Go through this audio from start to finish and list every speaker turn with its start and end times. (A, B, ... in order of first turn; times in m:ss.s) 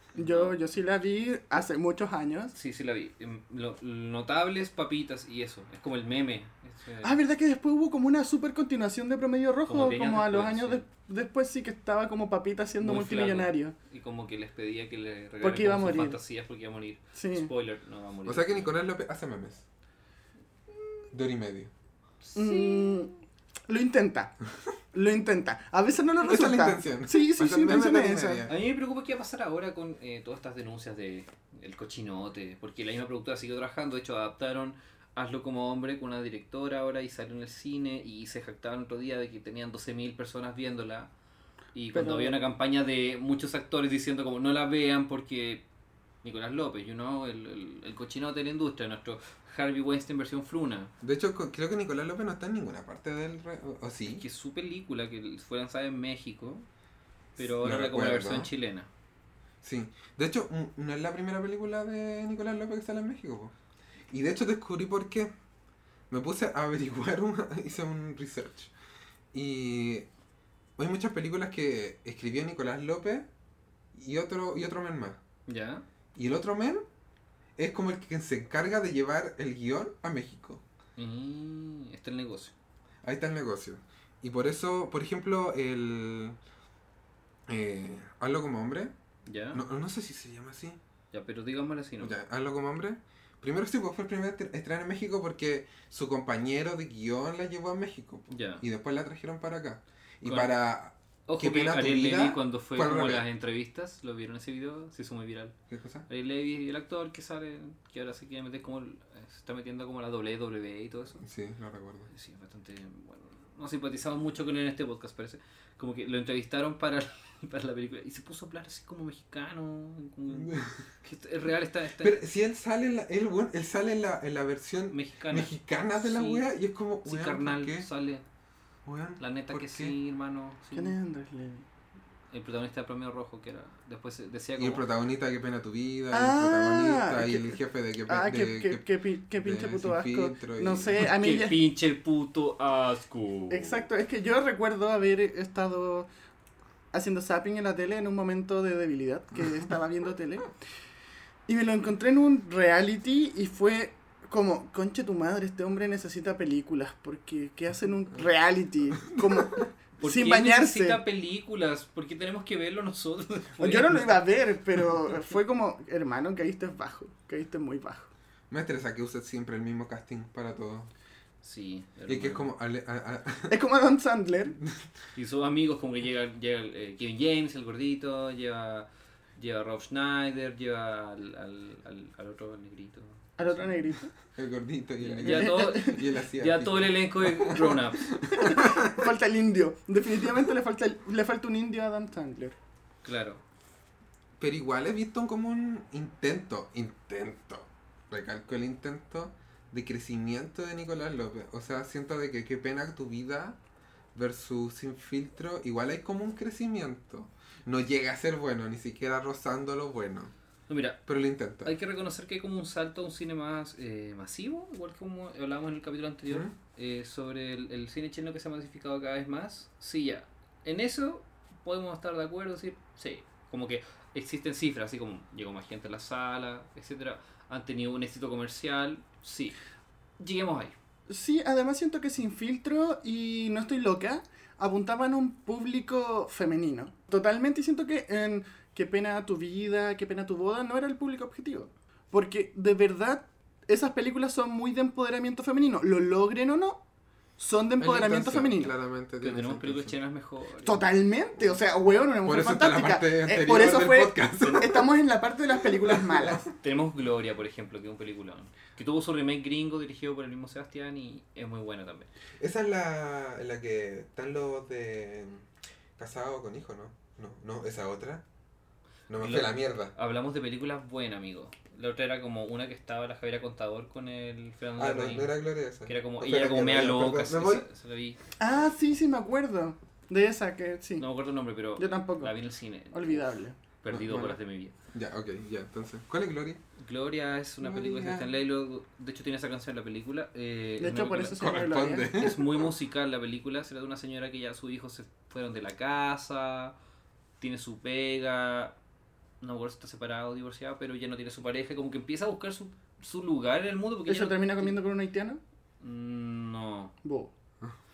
0:00.2-0:00.6 A
0:00.2-0:02.5 B
0:02.5-0:07.2 A
0:07.0-0:13.8 B
0:09.7-0:10.8 A
0:12.8-0:18.7 A
0:15.4-0:16.2 B
0:17.2-0:17.5 B
0:18.3-0:19.6 C
0:21.1-0:21.7 C
0:22.2-0:23.2 A
0:22.4-0:23.1 B
0:23.7-0:24.3 B
0:24.9-0:28.5 B
0:26.2-0:28.6 C
0:28.5-0:41.1 A
0:41.7-0:45.6 A
0:41.9-0:42.4 B
0:46.2-0:50.9 A
0:51.0-0:54.2 C
0:54.1-0:56.7 A
0:57.4-0:58.9 A
0:57.4-0:58.5 C
0:59.6-1:03.5 C
1:04.1-1:05.3 C
1:06.1-1:08.7 C
1:09.3-1:10.1 C
1:10.8-1:13.3 C
1:13.9-1:15.2 C
1:15.5-1:15.8 A
1:16.2-1:16.8 C
1:17.6-1:20.6 C
1:21.0-1:22.5 A
1:23.0-1:26.4 C
1:27.5-1:28.9 C
1:29.3-1:29.6 A
1:29.5-1:30.8 C
1:31.1-1:32.2 A
1:32.0-1:43.3 C
1:38.3-1:38.6 A
1:40.2-1:40.5 A
1:41.3-1:45.6 A
1:45.7-1:46.0 C
1:46.1-1:51.3 A
1:51.2-1:52.1 C
1:52.1-2:02.2 A
2:00.3-2:00.8 C
2:02.0-2:07.9 C
2:04.9-2:06.4 A
2:07.0-2:08.2 A
2:08.9-2:10.0 C
2:09.2-2:11.0 A
2:10.7-2:11.6 B
2:12.3-2:14.8 A
2:14.6-2:18.8 C
2:16.1-2:21.6 B
2:19.4-2:21.1 C
2:21.0-2:23.8 A
2:23.5-2:26.1 B
2:26.9-2:30.5 B
2:31.5-2:41.0 B
2:39.1-2:39.6 C
2:40.0-2:44.2 A
2:43.6-2:48.1 B
2:48.5-2:50.9 C
2:51.4-2:52.5 A
2:52.1-2:53.6 C
2:53.5-2:54.6 B
2:55.2-3:03.8 A
3:03.4-3:04.1 B
3:04.4-3:09.1 C
3:05.0-3:08.1 A
3:05.2-3:06.0 B
3:08.3-3:12.6 B
3:13.0-3:13.4 A
3:14.4-3:23.6 C
3:24.2-3:30.3 C
3:30.7-3:31.0 A
3:31.1-3:31.8 C
3:31.6-3:49.6 A
3:36.3-3:36.5 C
3:50.2-3:50.8 A
3:51.1-4:06.8 B
4:07.4-4:08.7 B
4:07.8-4:10.0 C
4:09.2-4:10.8 A
4:10.6-4:16.5 B
4:12.2-4:14.9 C
4:15.8-4:16.4 C
4:16.6-4:22.1 A
4:22.4-4:28.2 C
4:29.1-4:29.9 C
4:29.2-4:35.3 A
4:34.8-4:37.7 C
4:35.8-4:38.2 A
4:38.4-4:41.1 B
4:41.0-4:43.3 A
4:41.8-4:42.3 B
4:42.9-4:43.6 B
4:43.8-4:44.8 A
4:43.9-4:44.4 C
4:44.9-4:46.6 C
4:46.8-4:51.4 A
4:50.8-4:52.1 B
4:51.4-4:52.7 C
4:52.1-4:56.8 A
4:57.4-4:58.8 A
4:59.4-5:04.8 A
5:04.1-5:05.4 B
5:05.8-5:06.9 A
5:07.0-5:07.3 B